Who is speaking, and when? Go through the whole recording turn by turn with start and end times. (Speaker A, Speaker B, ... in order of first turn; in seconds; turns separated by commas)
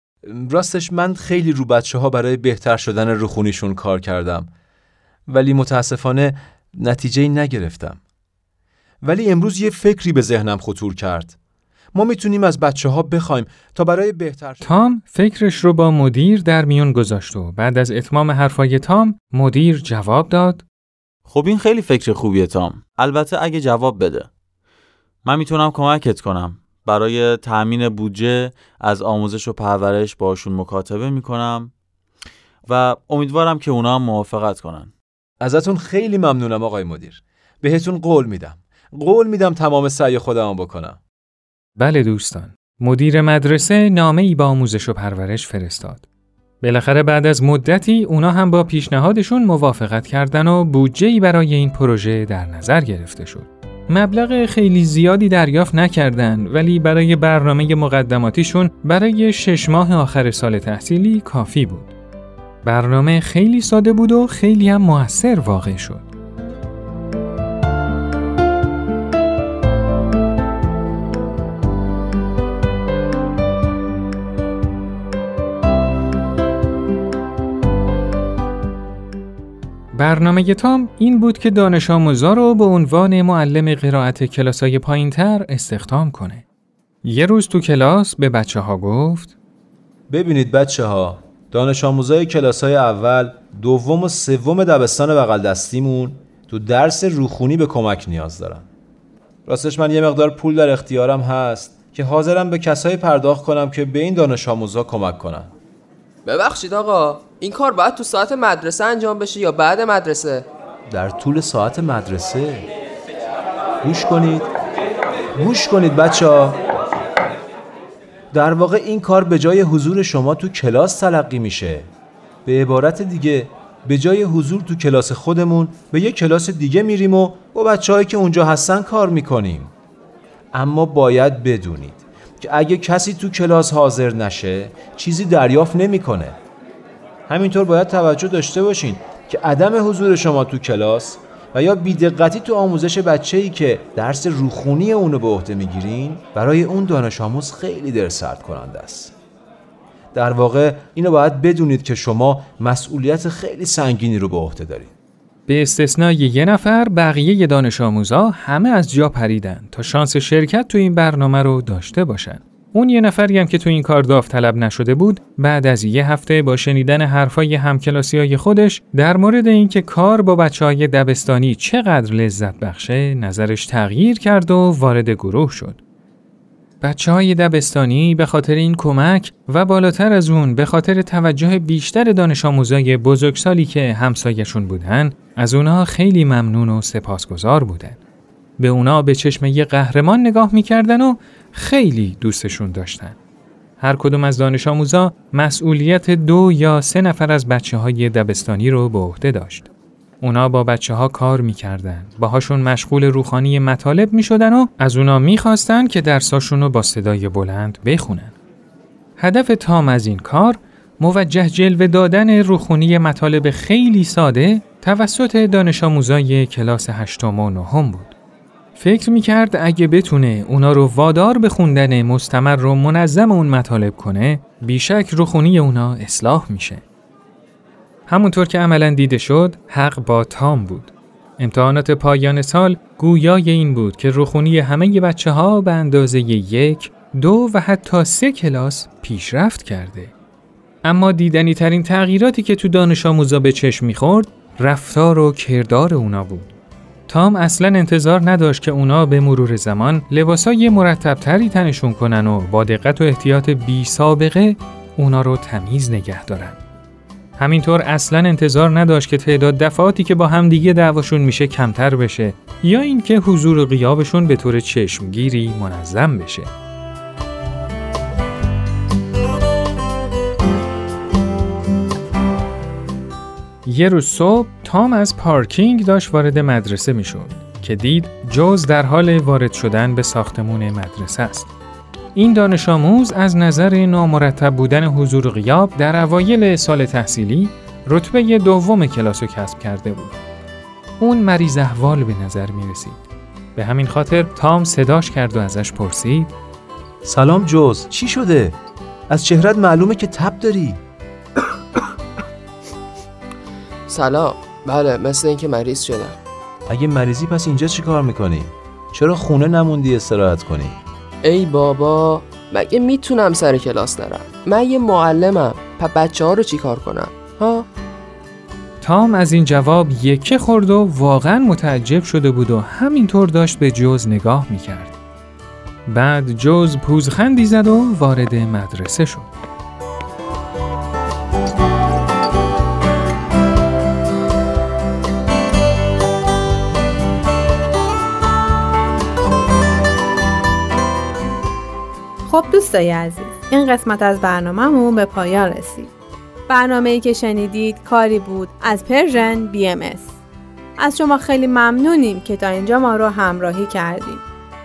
Speaker A: 0.2-4.5, Speaker A: 5.3-8.0, Speaker A: 9.0-11.3, Speaker A: 11.9-14.7, Speaker B: 14.6-20.6, Speaker C: 21.2-24.3, Speaker C: 25.2-31.7, Speaker C: 32.6-34.9, Speaker A: 35.4-41.0, Speaker B: 41.8-46.0, Speaker B: 46.6-61.9, Speaker B: 62.6-66.1, Speaker B: 79.9-86.4, Speaker B: 87.0-89.3, Speaker A: 90.1-98.6, Speaker A: 99.5-105.5, Speaker D: 106.2-110.5, Speaker A: 110.9-112.7, Speaker A: 113.8-114.5, Speaker A: 115.4-116.6, Speaker A: 118.3-121.9, Speaker A: 122.4-129.7, Speaker A: 130.5-136.4, Speaker A: 137.3-149.1, Speaker A: 150.1-154.9, Speaker B: 155.5-175.8, Speaker B: 176.8-188.0, Speaker B: 188.6-193.2, Speaker B: 193.8-208.3, Speaker B: 209.2-218.1, Speaker B: 218.7-226.8, Speaker B: 228.1-240.1, Speaker B: 240.8-246.5, Speaker B: 247.1-256.6, Speaker B: 257.4-266.5, Speaker B: 273.6-281.5, Speaker B: 282.1-290.2, Speaker B: 291.0-293.0, Speaker B: 293.5-296.3, Speaker A: 297.0-298.6, Speaker A: 299.1-300.8, Speaker D: 303.9-306.2, Speaker A: 306.7-310.8, Speaker D: 311.2-317.6, Speaker B: 318.8-324.9, Speaker B: 325.9-329.3, Speaker E: 342.3-345.9, Speaker E: 346.5-350.1, Speaker E: 350.8-354.2